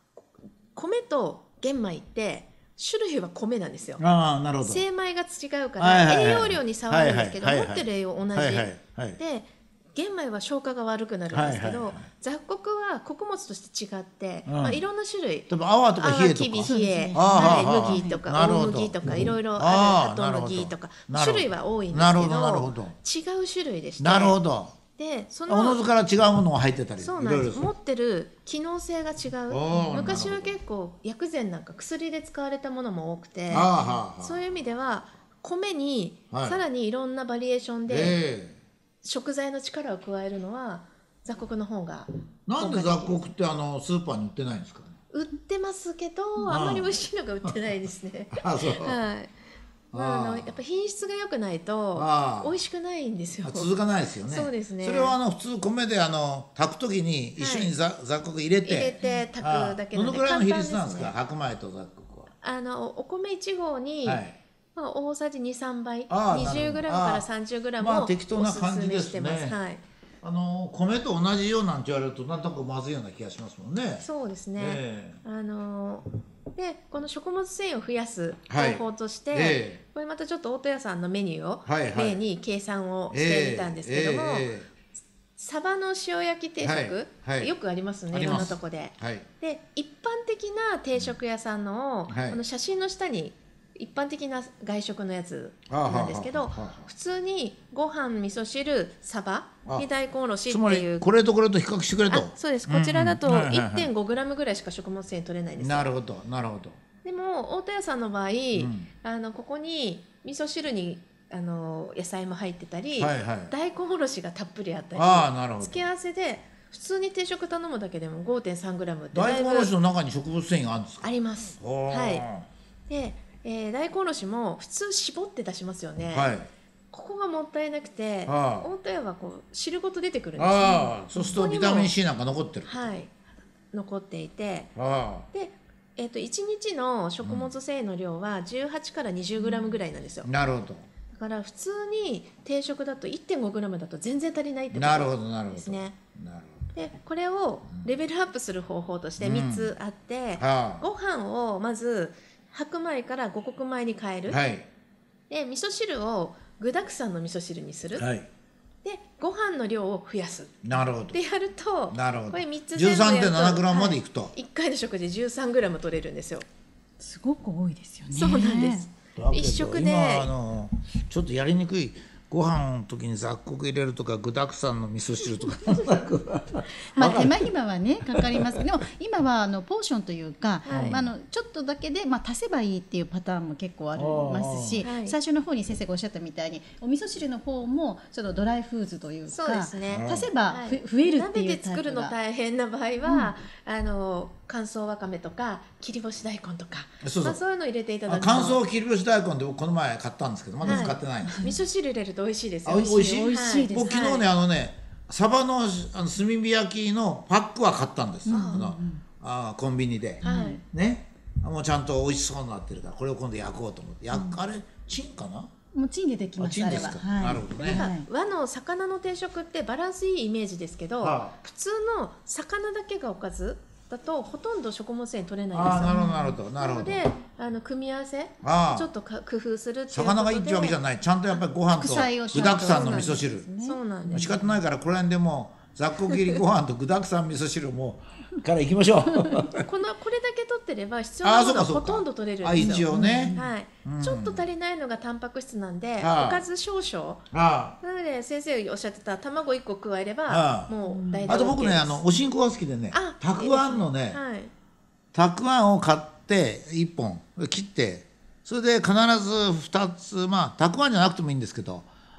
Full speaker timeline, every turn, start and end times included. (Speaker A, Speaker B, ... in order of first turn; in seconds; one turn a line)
Speaker A: 0.7-4.0
Speaker B: 4.0-4.8
Speaker A: 4.6-24.4
Speaker B: 5.8-9.2
Speaker B: 11.3-12.1
Speaker B: 14.4-14.8
Speaker B: 15.5-19.0
Speaker C: 16.6-18.2
Speaker B: 19.5-22.9
Speaker B: 24.0-24.7
Speaker A: 24.9-25.8
Speaker B: 25.5-27.7
Speaker A: 27.0-38.2
Speaker B: 29.5-30.6
Speaker B: 33.5-34.4
Speaker B: 36.3-36.6
Speaker B: 37.9-38.6
Speaker A: 39.0-43.2
Speaker B: 42.5-45.0
Speaker A: 45.1-49.3
Speaker B: 46.4-47.5
Speaker B: 48.3-49.0
Speaker B: 49.9-50.5
Speaker A: 49.9-53.7
Speaker B: 51.9-52.6
Speaker B: 53.4-62.3
Speaker A: 54.3-55.1
Speaker A: 57.4-57.7
Speaker A: 58.6-61.1
Speaker A: 62.4-64.2
Speaker B: 64.0-64.3
Speaker A: 64.7-69.8
Speaker B: 66.1-67.3
Speaker B: 67.8-69.6
Speaker B: 70.2-74.0
Speaker A: 74.0-84.5
Speaker B: 74.6-75.2
Speaker B: 78.5-79.8
Speaker B: 81.7-82.2
Speaker B: 83.1-84.7
Speaker A: 85.4-101.0
Speaker B: 86.6-87.5
Speaker B: 88.1-89.3
Speaker B: 92.1-92.4
Speaker B: 95.7-96.9
Speaker B: 100.5-103.9
Speaker A: 102.1-105.9
Speaker B: 105.6-106.8
Speaker A: 107.0-119.7
Speaker B: 108.5-108.9
Speaker B: 113.0-113.5
Speaker B: 115.0-115.8
Speaker B: 119.1-122.5
Speaker A: 121.0-122.2
Speaker A: 122.9-126.3
Speaker B: 126.1-126.5
Speaker A: 126.9-131.9
Speaker B: 128.3-128.7
Speaker B: 130.4-132.9
Speaker A: 132.7-133.2
Speaker A: 133.7-134.7
Speaker B: 134.8-135.3
Speaker A: 135.3-140.3
Speaker B: 137.2-137.5
Speaker B: 140.2-140.8
Speaker A: 141.1-145.9
Speaker B: 144.7-146.7
Speaker A: 146.7-154.4
Speaker B: 149.2-149.7
Speaker B: 150.4-150.8
Speaker B: 154.3-154.7
Speaker A: 155.3-158.1
Speaker B: 157.9-158.3
Speaker A: 158.8-166.4
Speaker B: 160.6-161.2
Speaker B: 161.9-164.3
Speaker C: 167.0-168.9
Speaker A: 168.1-170.3
Speaker B: 169.1-177.5
Speaker C: 176.9-192.1
Speaker B: 178.1-178.6
Speaker A: 180.6-181.0
Speaker B: 180.7-181.0
Speaker B: 183.9-184.8
Speaker A: 184.8-185.2
Speaker A: 189.3-198.6
Speaker B: 189.9-190.3
Speaker C: 193.1-193.3
Speaker B: 197.0-197.4
Speaker B: 198.1-201.4
Speaker C: 200.6-201.5
Speaker A: 200.6-204.2
Speaker B: 202.6-215.5
Speaker C: 202.9-203.9
Speaker C: 208.3-209.0
Speaker A: 208.3-208.7
Speaker A: 210.2-210.6
Speaker C: 210.2-210.6
Speaker C: 214.1-214.4
Speaker C: 215.7-218.1
Speaker B: 216.4-217.9
Speaker A: 217.6-226.0
Speaker B: 221.0-221.3
Speaker B: 225.5-227.1
Speaker C: 225.8-226.4
Speaker A: 226.5-230.8
Speaker B: 228.4-228.9
Speaker B: 229.9-233.5
Speaker C: 231.8-234.3
Speaker A: 232.4-234.4
Speaker B: 234.1-239.7
Speaker A: 239.6-247.2
Speaker B: 241.2-244.4
Speaker C: 242.5-243.5
Speaker B: 246.0-246.4
Speaker B: 247.3-247.8
Speaker A: 247.8-252.0
Speaker B: 250.3-250.7
Speaker C: 250.8-251.2
Speaker B: 251.3-254.2
Speaker A: 252.9-254.5
Speaker B: 255.1-261.9